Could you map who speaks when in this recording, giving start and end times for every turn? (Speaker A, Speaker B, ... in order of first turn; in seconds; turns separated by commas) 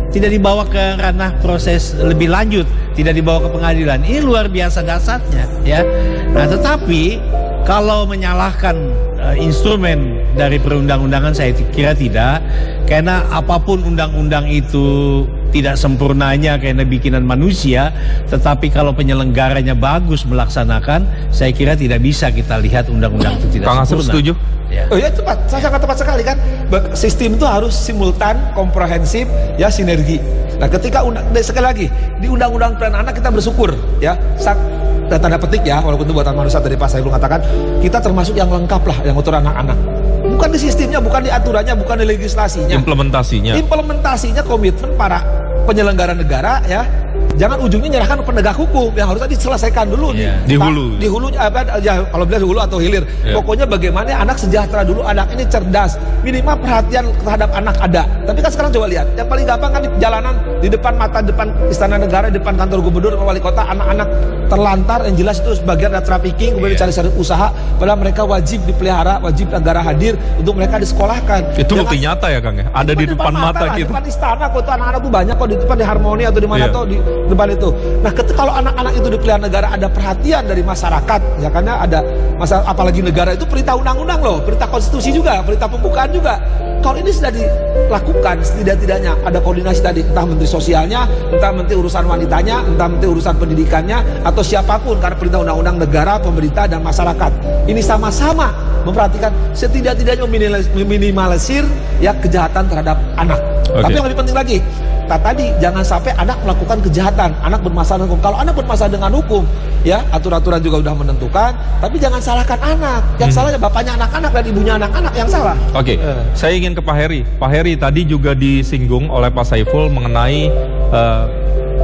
Speaker A: 0.1-24.9, Speaker B: 23.6-24.4, Speaker C: 24.9-42.9, Speaker B: 42.7-43.6, Speaker C: 43.5-72.0, Speaker A: 50.1-50.5, Speaker B: 50.4-51.1, Speaker B: 66.6-66.9, Speaker B: 71.6-74.0, Speaker C: 72.8-115.6, Speaker B: 76.5-76.8, Speaker B: 103.8-104.0, Speaker B: 113.2-113.5, Speaker B: 115.7-121.3